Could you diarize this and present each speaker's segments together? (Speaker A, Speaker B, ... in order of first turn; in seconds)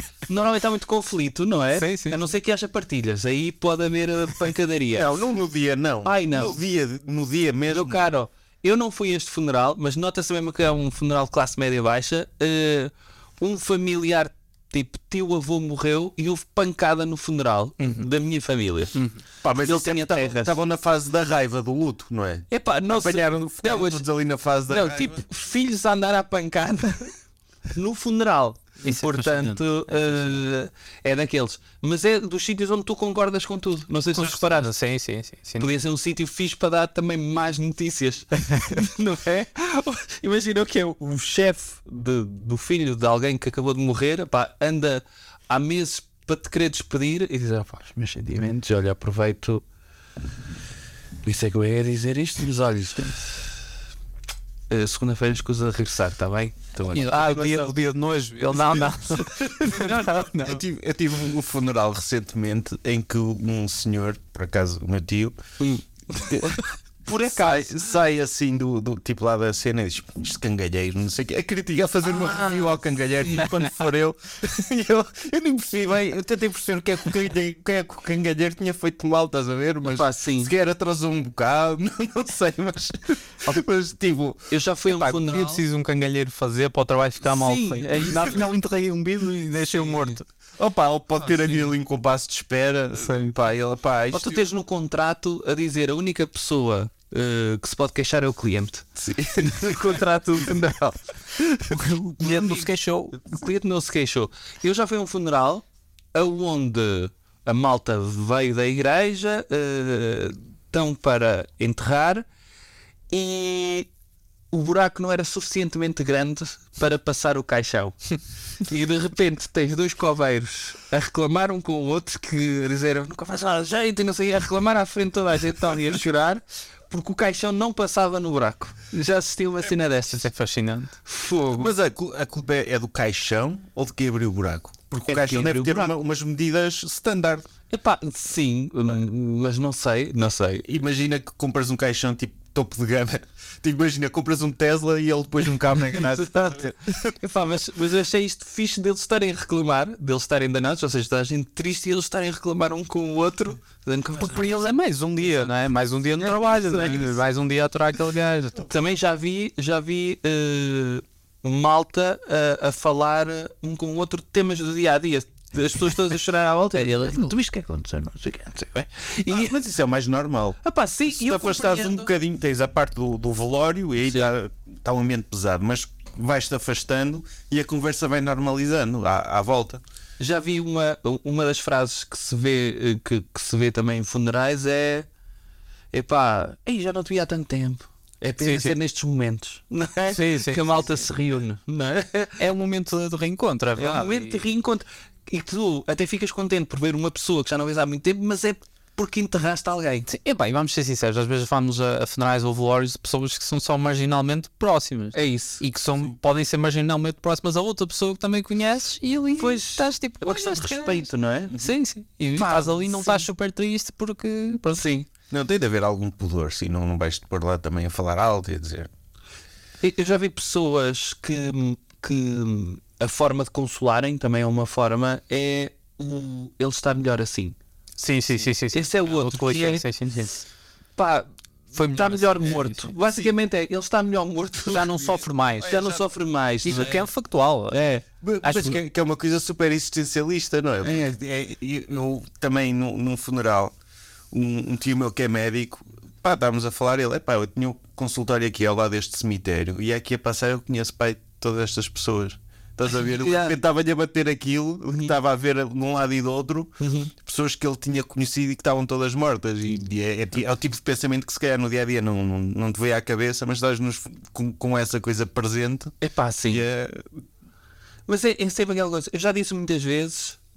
Speaker A: 0.3-5.1, 6.0-6.6, 7.7-18.9, 19.6-20.6, 22.5-24.0, 24.7-27.1, 27.7-34.7, 35.6-49.6, 51.2-53.2, 54.7-57.7, 59.2-60.5, 65.6-67.9, 79.9-80.5, 84.5-85.6, 87.2-88.4, 94.1-112.2, 113.1-113.9, 114.5-118.0, 118.6-130.3, 131.1-131.7, 135.0-135.9, 137.7-140.7, 146.1-154.5, 156.5-157.1, 158.7-169.6, 170.6-172.1, 180.2-185.1, 185.9-192.4, 193.8-200.1, 205.1-205.6, 209.4-211.7, 212.3-213.2, 214.7-215.1, 219.8-227.6, 228.7-229.8, 231.0-235.1, 235.6-237.0, 237.7-238.8, 240.8-241.1, 253.2-253.6, 256.8-257.1, 266.0-266.6, 268.1-270.4
Speaker B: 1.8-2.2, 28.8-29.6, 34.1-35.7, 56.9-60.5, 84.9-90.2, 130.1-130.9, 154.2-158.7, 166.8-167.3, 188.4-188.7, 190.1-190.6, 192.4-194.5, 200.1-214.8, 228.0-230.4, 234.7-235.8, 236.6-237.8
Speaker C: 4.9-8.0, 19.4-25.2, 60.4-65.4, 66.2-66.6, 67.3-84.5, 90.6-94.4, 99.0-99.9, 131.6-137.5, 140.6-147.1, 169.3-170.6, 171.1-179.8, 215.3-218.9, 238.2-243.7, 244.3-265.9, 266.5-267.1